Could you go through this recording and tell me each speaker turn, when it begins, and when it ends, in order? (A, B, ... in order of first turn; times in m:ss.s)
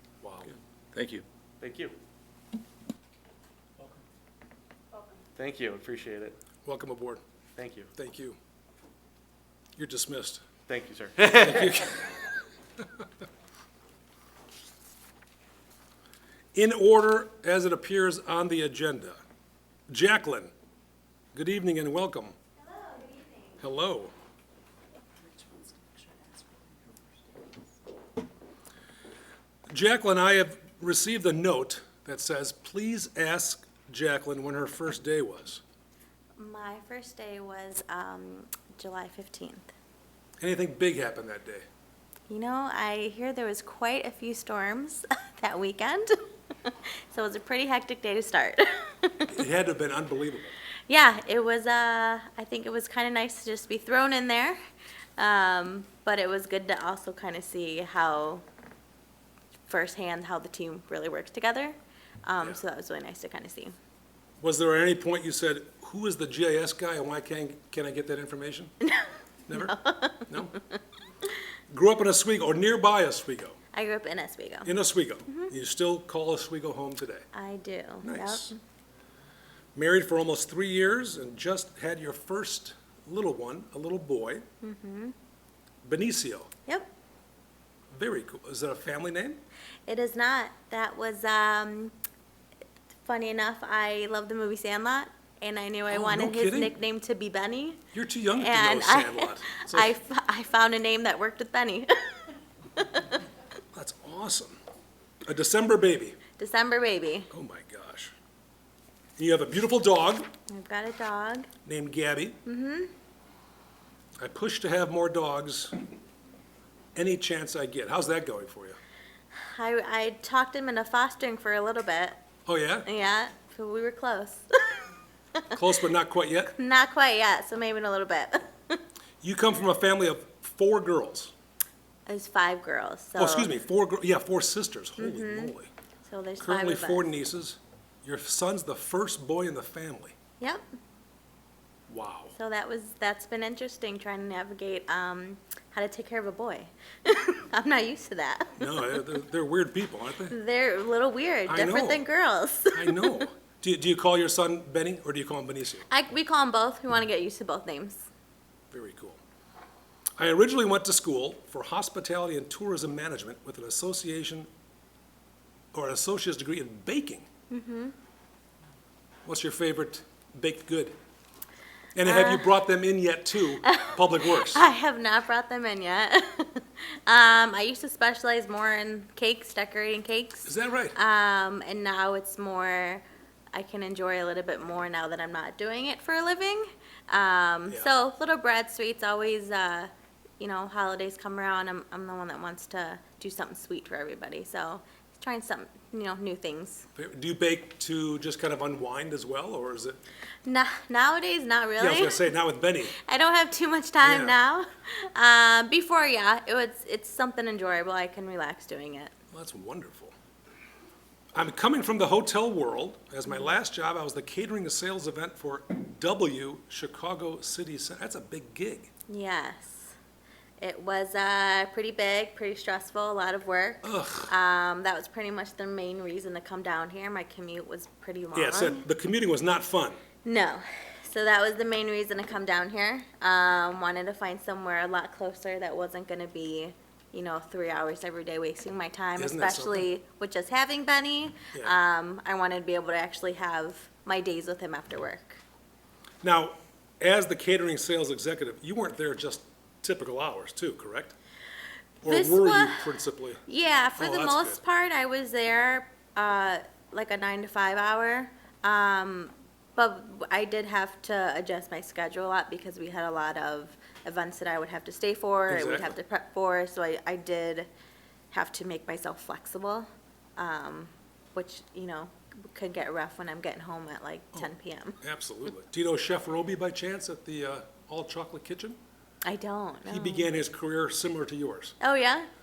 0:00.2-0:00.5 A
0:00.9-0:01.2 B
0:01.6-0:01.9 C
0:05.3-0:06.4 C
0:06.6-0:07.2 A
0:07.6-0:07.9 C
0:08.0-0:08.4 A
0:09.8-0:10.4 A
0:10.7-0:12.1 C
0:11.3-0:12.2 A
0:16.5-0:19.2 A
0:19.9-0:20.5 A
0:21.3-0:22.3 A
0:22.8-0:23.2 D
0:23.6-0:24.1 A
0:25.2-0:27.6 B
0:29.7-0:35.6 A
0:36.4-0:39.7 D
0:40.4-0:41.6 A
0:42.3-0:49.3 D
0:49.3-0:50.5 A
0:50.9-0:54.6 D
0:55.2-0:58.4 D
0:59.7-1:03.7 D
1:04.4-1:08.7 A
1:08.8-1:10.6 D
1:09.5-1:09.8 A
1:10.3-1:10.5 A
1:11.7-1:13.6 A
1:13.7-1:15.5 D
1:14.6-1:17.2 A
1:17.3-1:18.6 D
1:18.0-1:18.5 A
1:19.7-1:24.4 A
1:24.6-1:25.1 D
1:25.8-1:26.5 A
1:27.9-1:29.4 A
1:29.9-1:31.9 D
1:33.0-1:43.0 D
1:35.9-1:36.7 A
1:37.9-1:39.9 A
1:43.7-1:44.6 A
1:45.2-1:46.2 A
1:46.4-1:47.3 D
1:47.3-1:48.1 A
1:49.2-1:50.3 A
1:50.5-1:51.5 D
1:51.6-1:52.4 A
1:52.4-1:52.9 D
1:54.2-1:55.7 A
1:56.9-1:58.8 A
1:59.3-2:02.2 D
2:02.4-2:02.9 A
2:02.8-2:05.6 D
2:05.5-2:06.5 A
2:06.5-2:08.8 D
2:09.2-2:11.3 A
2:12.1-2:13.5 D
2:13.2-2:15.7 A
2:15.0-2:17.1 D
2:16.4-2:20.1 A
2:20.4-2:20.6 D
2:21.9-2:22.3 A
2:22.3-2:29.0 D
2:28.6-2:30.4 A
2:30.3-2:33.2 D
2:31.5-2:32.1 A
2:32.7-2:35.9 A
2:35.9-2:38.1 D
2:38.7-2:39.2 A
2:40.2-2:44.5 A
2:45.7-2:47.3 A
2:47.5-2:47.9 D
2:49.2-2:50.9 A
2:51.9-2:54.7 A
2:52.0-2:52.6 D
2:53.6-3:16.9 D
3:00.4-3:01.0 A
3:16.9-3:20.0 A
3:20.4-3:22.3 D
3:21.8-3:23.0 A
3:22.9-3:29.1 D
3:24.0-3:24.4 A
3:29.3-3:30.1 A
3:31.3-3:38.9 A
3:39.1-3:39.9 D
3:40.6-3:48.8 D
3:43.8-3:44.3 A
3:48.3-3:50.0 A
3:50.2-4:05.4 D
3:59.2-3:59.9 A
4:06.2-4:11.1 A
4:12.0-4:13.4 A
4:12.0-4:27.7 D
4:14.0-4:14.6 A
4:25.5-4:25.9 A
4:28.3-4:35.0 D
4:35.0-4:38.8 A
4:39.2-4:40.3 D
4:39.8-4:41.7 A
4:41.8-4:42.3 D